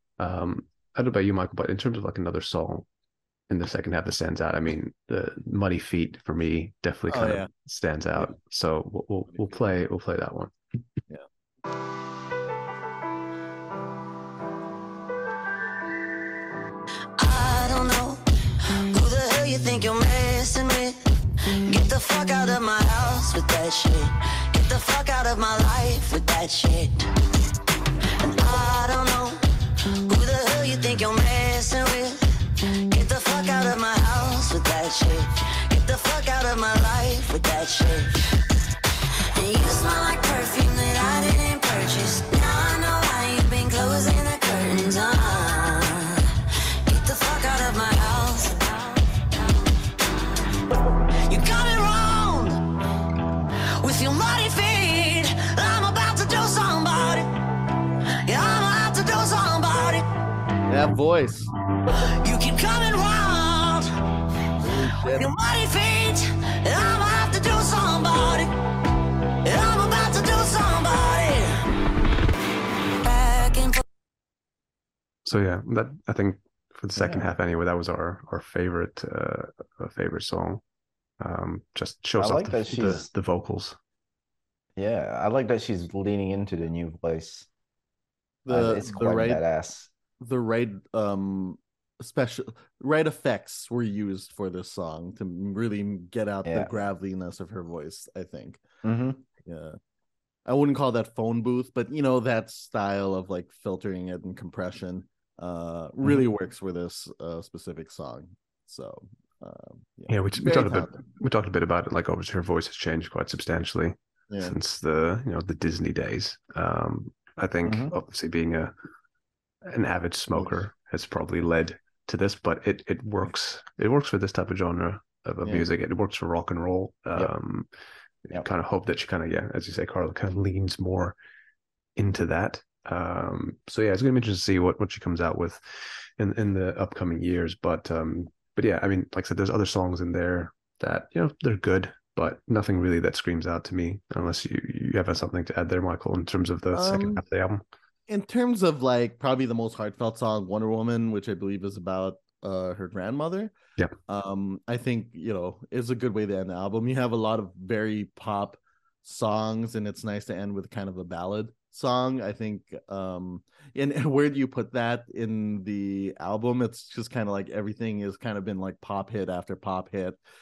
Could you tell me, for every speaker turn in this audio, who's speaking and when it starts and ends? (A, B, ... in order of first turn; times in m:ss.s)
0:00.2-0:02.9 A
0:03.5-0:10.5 A
0:07.1-0:07.5 B
0:17.2-0:18.2 C
0:18.9-0:21.0 C
0:21.6-0:27.1 C
0:28.2-0:29.4 C
0:30.1-0:38.4 C
0:39.3-0:49.3 C
0:50.7-0:52.6 C
0:53.8-0:57.3 C
0:58.2-1:00.0 C
1:00.7-1:01.5 B
1:01.9-1:03.9 C
1:04.6-1:05.3 B
1:04.7-1:08.5 C
1:09.4-1:11.5 C
1:13.0-1:13.8 C
1:15.2-1:20.6 A
1:17.0-1:17.4 D
1:21.2-1:23.8 A
1:22.2-1:23.1 D
1:24.8-1:27.5 D
1:28.4-1:29.4 B
1:28.5-1:29.9 D
1:30.2-1:38.6 B
1:36.4-1:36.7 D
1:38.8-1:39.2 D
1:39.4-1:39.8 B
1:40.4-1:51.0 B
1:50.1-1:58.7 A
1:54.3-1:54.6 B
1:57.7-1:58.0 D
1:59.6-2:07.7 A
2:05.4-2:05.7 B
2:08.3-2:11.2 A
2:12.0-2:15.6 A
2:16.2-2:27.6 A
2:26.7-2:27.2 B
2:28.1-2:33.5 B
2:34.1-2:50.2 B